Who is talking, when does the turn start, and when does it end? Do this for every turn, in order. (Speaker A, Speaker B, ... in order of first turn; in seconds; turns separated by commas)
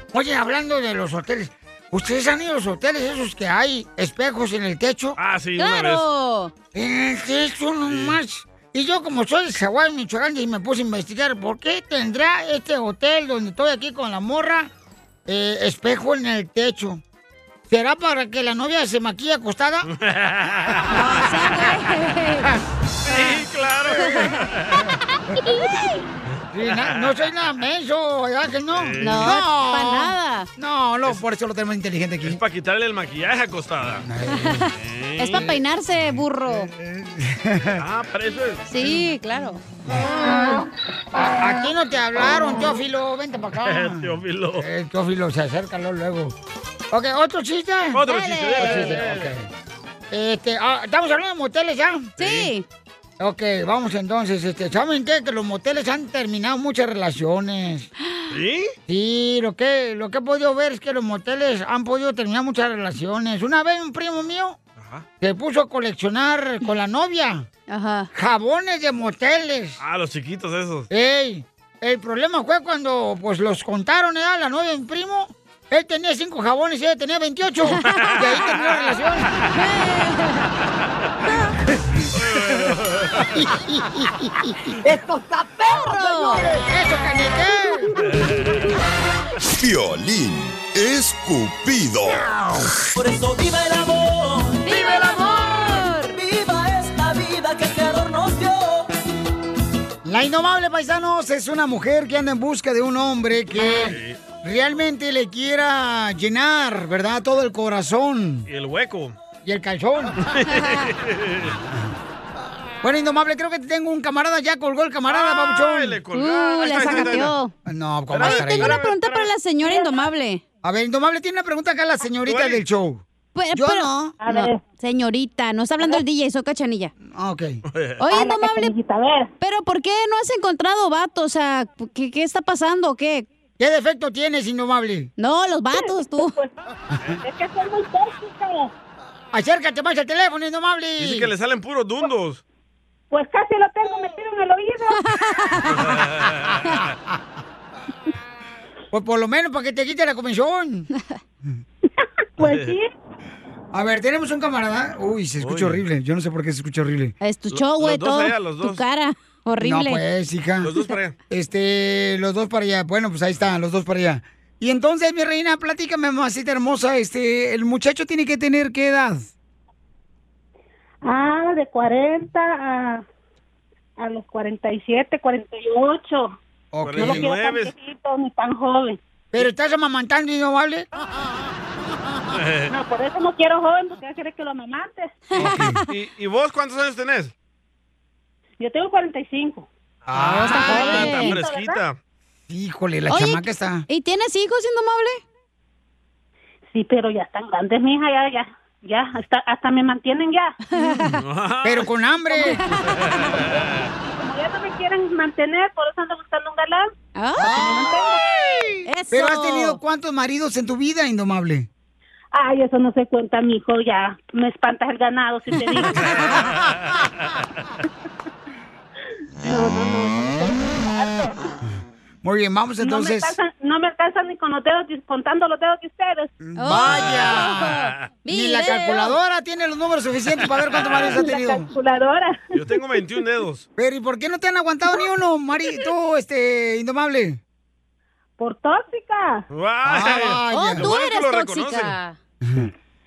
Speaker A: 0.1-5.2, Speaker B: 5.2-6.0, Speaker C: 5.6-6.5, Speaker A: 6.7-14.7, Speaker B: 7.9-8.2, Speaker A: 15.3-17.0, Speaker A: 17.7-19.9, Speaker B: 19.9-21.0, Speaker C: 20.9-22.5, Speaker B: 23.1-24.9, Speaker C: 24.0-24.4, Speaker A: 25.3-25.7, Speaker C: 25.4-25.9, Speaker B: 26.4-27.1, Speaker A: 26.5-32.4, Speaker B: 28.7-29.4, Speaker C: 29.0-30.5, Speaker B: 32.2-34.0, Speaker A: 34.0-34.7, Speaker C: 34.3-34.6, Speaker B: 34.8-35.5, Speaker C: 35.2-36.7, Speaker A: 35.3-35.5, Speaker A: 36.5-37.8, Speaker B: 37.8-38.9, Speaker C: 38.7-39.6, Speaker A: 41.1-46.3, Speaker B: 43.6-44.6, Speaker A: 46.9-48.0, Speaker B: 47.9-49.3, Speaker C: 48.1-49.0, Speaker A: 48.5-49.5, Speaker A: 50.1-52.1, Speaker B: 52.2-52.5, Speaker C: 52.2-52.6, Speaker A: 53.2-57.9, Speaker B: 58.3-58.7, Speaker A: 58.9-64.6, Speaker B: 64.8-65.0, Speaker A: 65.2-67.5, Speaker C: 67.7-68.1, Speaker A: 68.1-69.8, Speaker B: 69.8-70.9, Speaker A: 70.9-79.3, Speaker C: 77.7-78.2, Speaker C: 79.5-80.5, Speaker B: 82.1-83.4, Speaker A: 83.4-84.5, Speaker C: 85.7-86.5, Speaker A: 86.2-87.9, Speaker B: 88.1-88.6, Speaker D: 89.5-92.3, Speaker E: 92.9-98.9, Speaker C: 94.6-96.1, Speaker A: 100.0-108.5, Speaker B: 103.7-104.2, Speaker B: 108.5-109.2, Speaker A: 109.4-110.2, Speaker B: 110.2-111.6, Speaker A: 111.7-112.0, Speaker A: 112.8-116.0, Speaker B: 115.1-117.3, Speaker C: 116.1-117.5, Speaker A: 116.8-118.8, Speaker B: 118.1-119.3, Speaker C: 118.2-120.4, Speaker F: 119.6-119.9, Speaker A: 120.6-123.0, Speaker B: 122.2-122.6, Speaker C: 123.3-126.9, Speaker A: 123.5-124.3, Speaker F: 124.2-124.6, Speaker A: 127.0-127.6, Speaker B: 127.7-128.0, Speaker C: 128.0-128.7, Speaker F: 128.1-129.3, Speaker C: 129.4-133.3, Speaker A: 133.6-135.1, Speaker C: 135.2-136.3, Speaker F: 135.7-136.5, Speaker F: 137.2-138.7, Speaker A: 139.3-141.3, Speaker B: 141.0-142.4, Speaker F: 143.1-145.0, Speaker C: 145.0-145.8, Speaker B: 145.7-146.9, Speaker A: 148.9-150.9, Speaker F: 152.4-152.9, Speaker B: 152.4-152.8, Speaker A: 153.7-157.1, Speaker B: 155.4-155.8, Speaker C: 157.2-160.0, Speaker B: 157.5-158.8, Speaker A: 159.6-160.7, Speaker B: 160.6-161.1, Speaker A: 161.3-169.3, Speaker F: 171.0-173.0, Speaker F: 174.0-176.3, Speaker A: 176.7-177.3, Speaker B: 176.8-177.7, Speaker F: 177.0-179.0, Speaker A: 179.3-180.9, Speaker B: 182.3-182.7, Speaker F: 182.7-185.2, Speaker C: 185.3-185.9, Speaker A: 185.4-185.8, Speaker B: 185.9-187.3, Speaker F: 188.6-189.7, Speaker B: 190.1-192.0, Speaker A: 190.1-191.3, Speaker C: 190.2-191.3, Speaker F: 190.7-191.8, Speaker A: 192.5-193.8, Speaker C: 193.1-195.2, Speaker F: 196.7-200.6, Speaker C: 200.7-201.1, Speaker B: 201.2-201.9, Speaker A: 201.6-202.6, Speaker C: 202.5-203.2, Speaker B: 203.2-203.8, Speaker F: 203.9-206.9, Speaker C: 207.2-207.5, Speaker A: 207.4-208.0, Speaker F: 207.4-208.2, Speaker C: 208.8-209.8, Speaker A: 209.1-211.7, Speaker F: 212.3-216.4, Speaker F: 219.4-221.3, Speaker A: 222.2-223.3, Speaker F: 222.8-226.3, Speaker A: 226.4-227.7, Speaker C: 226.6-229.2, Speaker B: 227.7-228.0, Speaker A: 228.3-231.7, Speaker B: 230.7-231.2, Speaker F: 231.0-232.4, Speaker B: 232.5-233.7, Speaker A: 233.8-237.4, Speaker F: 238.4-239.4, Speaker B: 239.5-241.9, Speaker A: 239.8-240.9, Speaker C: 240.5-242.2, Speaker A: 242.4-242.7